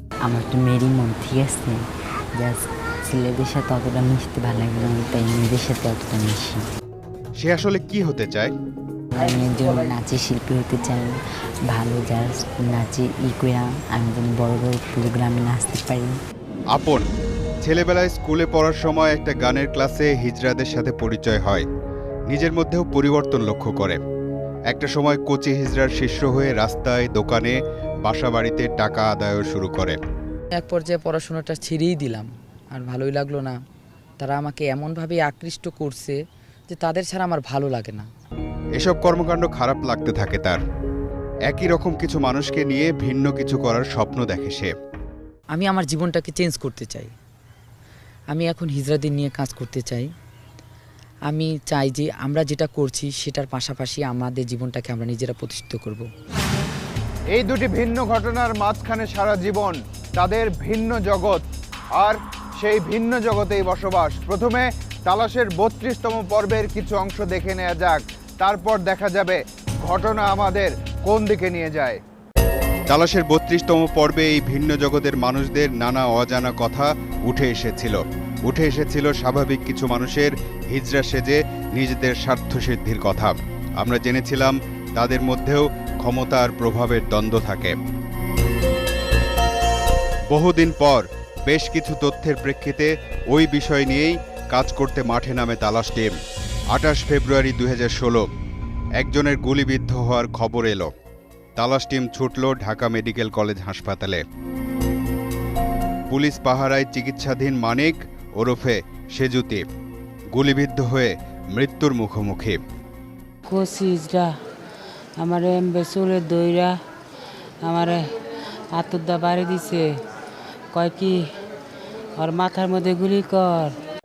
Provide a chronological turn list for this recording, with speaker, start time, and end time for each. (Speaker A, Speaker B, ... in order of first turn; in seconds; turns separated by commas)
Speaker A: 0.2-6.6, Speaker B: 7.4-8.5, Speaker A: 9.1-16.2, Speaker B: 16.7-17.0, Speaker B: 17.6-21.6, Speaker B: 22.3-24.0, Speaker B: 24.7-30.0, Speaker C: 30.5-33.6, Speaker C: 34.2-38.1, Speaker B: 38.8-40.6, Speaker B: 41.5-44.7, Speaker C: 45.5-47.1, Speaker C: 48.3-50.1, Speaker C: 51.3-56.1, Speaker D: 57.3-61.4, Speaker D: 61.9-72.0, Speaker B: 72.9-87.8, Speaker B: 90.3-96.2, Speaker B: 96.7-98.3, Speaker B: 99.0-100.9, Speaker B: 101.6-104.2, Speaker B: 106.1-109.7, Speaker B: 110.3-112.6, Speaker E: 113.5-114.3, Speaker E: 115.2-116.7, Speaker E: 117.6-118.0, Speaker E: 118.7-119.9, Speaker E: 120.7-121.2, Speaker E: 122.2-123.7